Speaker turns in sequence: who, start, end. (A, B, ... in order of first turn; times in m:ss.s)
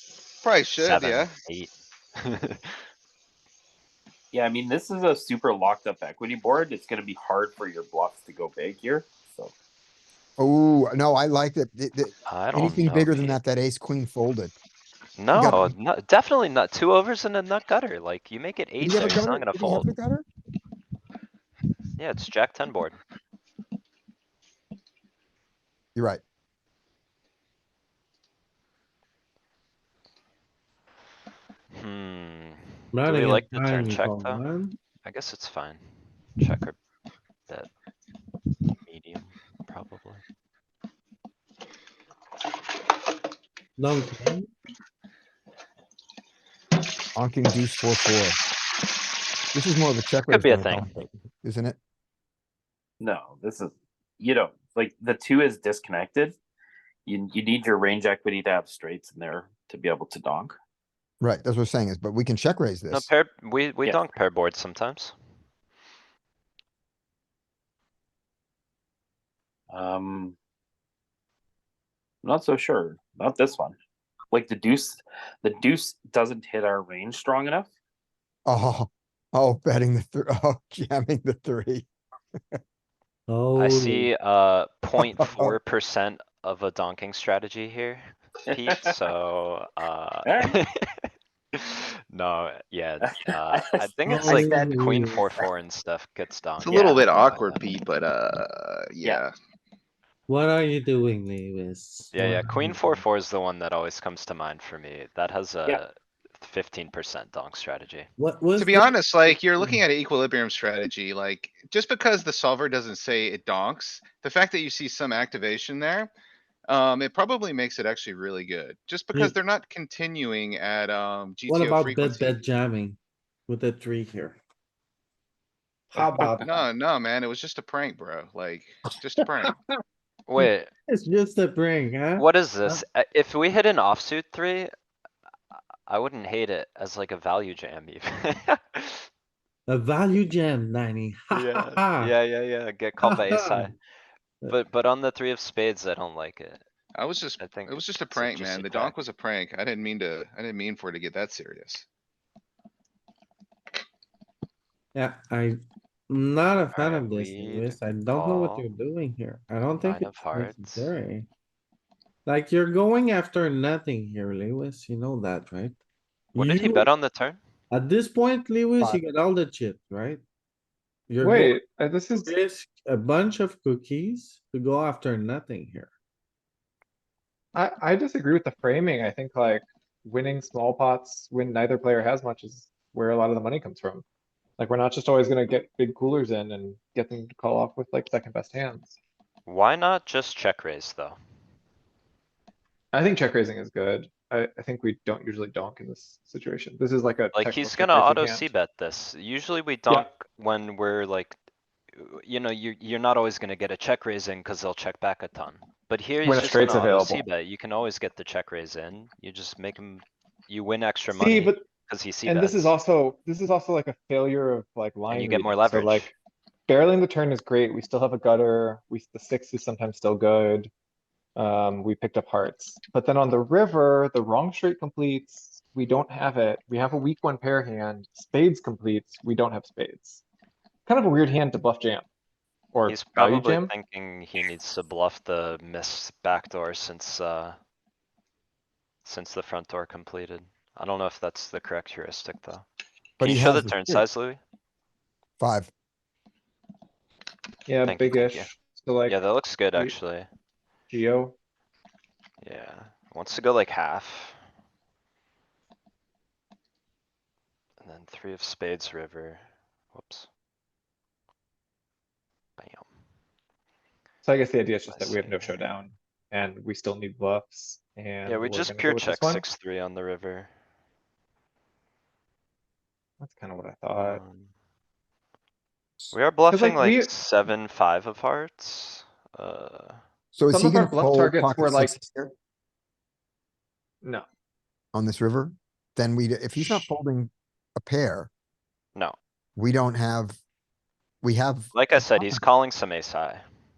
0:00.4-0:01.3 A
0:00.8-0:02.8 B
0:04.3-0:09.5 C
0:10.4-0:14.5 D
0:12.3-0:13.4 B
0:15.2-0:19.9 B
0:15.3-0:15.7 D
0:18.8-0:20.2 D
0:22.0-0:23.0 B
0:25.9-0:26.2 D
0:31.7-0:34.4 B
0:32.9-0:34.8 E
0:35.0-0:36.8 B
0:38.8-0:40.2 B
0:43.8-0:44.5 E
0:47.1-0:48.4 D
0:49.5-0:51.8 D
0:50.3-0:50.9 B
0:53.0-0:56.4 C
0:57.0-1:00.6 C
1:01.2-1:03.1 D
1:02.9-1:05.1 B
1:09.7-1:10.4 C
1:12.2-1:13.8 C
1:14.3-1:17.7 C
1:18.4-1:21.9 D
1:23.3-1:24.1 E
1:23.6-1:37.6 B
1:25.0-1:25.6 D
1:28.5-1:28.9 C
1:30.2-1:30.5 C
1:33.1-1:34.5 C
1:34.0-1:35.2 E
1:36.6-1:39.3 A
1:40.3-1:43.0 E
1:42.1-1:48.1 B
1:48.2-1:48.9 E
1:48.6-1:56.1 A
1:56.7-2:02.4 A
2:01.5-2:04.4 E
2:05.9-2:06.6 F
2:06.4-2:09.5 A
2:09.0-2:09.5 E
2:10.3-2:10.7 B
2:10.4-2:12.8 E
2:12.2-2:14.7 B
2:15.9-2:19.1 B
2:19.7-2:22.1 E
2:21.3-2:23.8 B
2:23.0-2:23.7 E
2:24.5-2:26.6 B
2:26.9-2:31.8 A
2:27.4-2:29.0 B
2:34.9-2:41.3 E
2:36.6-2:38.7 B
2:39.8-2:40.9 B
2:42.2-2:45.8 E
2:46.3-2:46.9 E
2:46.4-2:47.4 B
2:47.7-2:50.2 E
2:51.1-2:51.6 E
2:51.2-2:52.3 F
2:52.1-2:55.9 E
2:57.5-3:04.0 F
3:04.6-3:09.0 F
3:09.4-3:11.2 B
3:12.9-3:18.5 F
3:17.3-3:21.4 B
3:21.9-3:32.7 B
3:26.2-3:27.2 F
3:31.1-3:31.6 F
3:32.2-3:36.1 F
3:35.1-3:36.1 B
3:36.7-3:40.7 F
3:41.4-3:50.2 F
3:50.8-3:52.0 F
3:52.7-3:53.7 F
3:52.8-3:57.6 B
3:59.0-4:02.6 B
4:03.2-4:04.0 D
4:03.2-4:04.4 B
4:05.4-4:05.7 D
4:07.6-4:09.2 F
4:07.8-4:08.5 B
4:09.1-4:10.3 B
4:10.9-4:11.3 F
4:12.4-4:14.4 B
4:17.8-4:20.3 B
4:22.6-4:22.9 B
4:24.2-4:29.4 F
4:24.9-4:25.6 B
4:28.2-4:30.5 B
4:33.2-4:34.2 F
4:33.9-4:34.5 B
4:36.1-4:40.0 B
4:36.5-4:37.1 F
4:40.3-4:42.3 D
4:40.5-4:42.0 F
4:44.9-4:48.3 D
4:49.6-4:50.4 D
4:51.2-4:52.4 D
4:51.7-4:53.4 B